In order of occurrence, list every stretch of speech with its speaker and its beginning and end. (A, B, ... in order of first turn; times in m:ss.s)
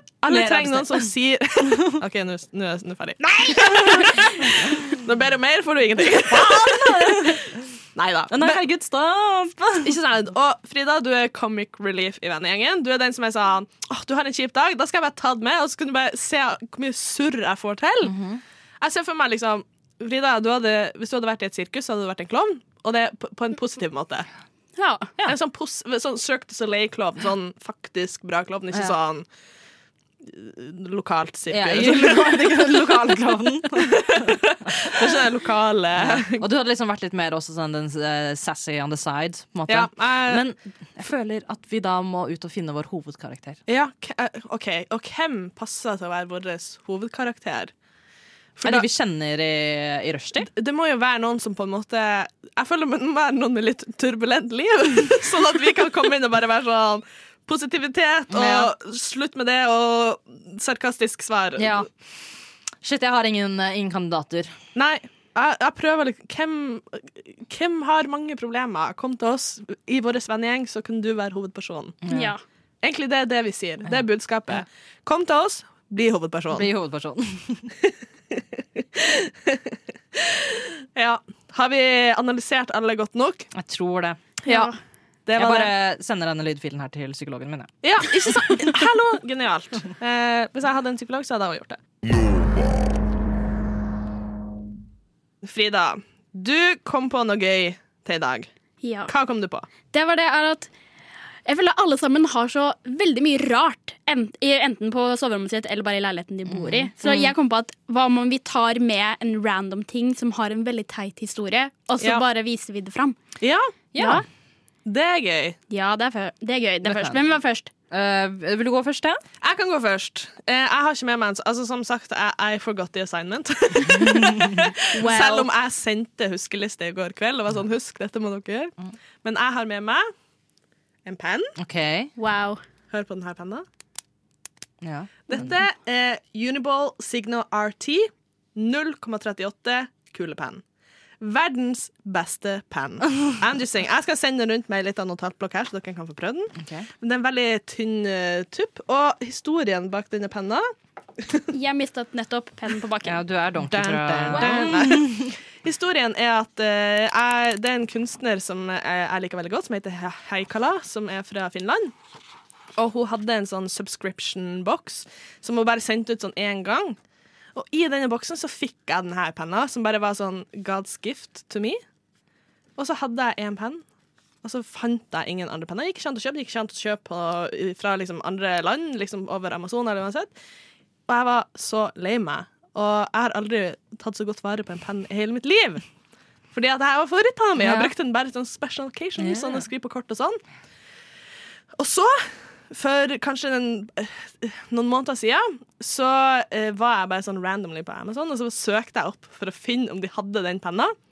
0:00.2-0:08.6 A
0:00.2-0:01.1 B
0:03.4-0:04.2 B
0:06.3-0:07.4 B
0:08.3-0:10.0 B
0:09.8-0:18.2 A
0:18.0-0:18.4 B
0:18.8-0:24.3 A
0:24.8-0:25.1 C
0:25.2-0:29.3 A
0:30.2-0:33.0 A
0:31.5-0:34.9 B
0:33.8-0:36.4 A
0:36.0-0:43.6 B
0:39.7-0:40.4 A
0:43.7-0:47.7 A
0:48.6-0:48.9 A
0:48.6-0:50.5 B
0:50.4-1:01.9 A
0:58.3-0:58.7 B
1:01.6-1:01.9 B
1:02.8-1:04.5 B
1:04.8-1:12.0 A
1:12.0-1:12.3 B
1:12.1-1:12.4 C
1:12.8-1:16.7 A
1:13.9-1:14.6 B
1:16.5-1:17.7 B
1:18.3-1:19.6 A
1:20.2-1:23.5 A
1:23.5-1:24.2 B
1:24.5-1:24.7 A
1:24.5-1:24.7 C
1:25.3-1:25.7 A
1:25.4-1:27.7 B
1:27.8-1:31.8 A
1:28.4-1:28.7 B
1:35.4-1:38.5 A
1:38.8-1:39.1 C
1:39.1-1:39.7 A
1:39.9-1:40.7 C
1:41.5-1:53.2 C
1:46.5-1:47.3 B
1:53.4-1:53.7 A
1:53.9-1:54.2 B
1:54.0-1:54.2 C
1:54.9-1:55.6 A
1:55.7-1:57.7 C
1:56.8-1:57.2 B
1:57.9-1:59.2 B
1:59.4-2:10.1 A
2:03.8-2:04.6 B
2:04.9-2:05.5 C
2:11.0-2:11.6 A
2:11.6-2:12.1 B
2:12.2-2:12.6 C
2:12.9-2:13.6 A
2:14.8-2:15.5 B
2:15.3-2:20.6 A
2:21.2-2:31.4 A
2:26.6-2:26.9 B
2:31.5-2:33.2 C
2:33.0-2:35.3 B
2:33.6-2:41.9 A
2:34.3-2:34.8 C
2:42.8-2:47.0 A
2:47.6-2:51.8 A
2:52.8-2:53.8 A
2:54.4-3:00.3 A
3:01.1-3:05.8 A
3:06.5-3:10.4 A
3:07.6-3:07.9 B
3:09.2-3:09.6 B
3:11.8-3:21.0 A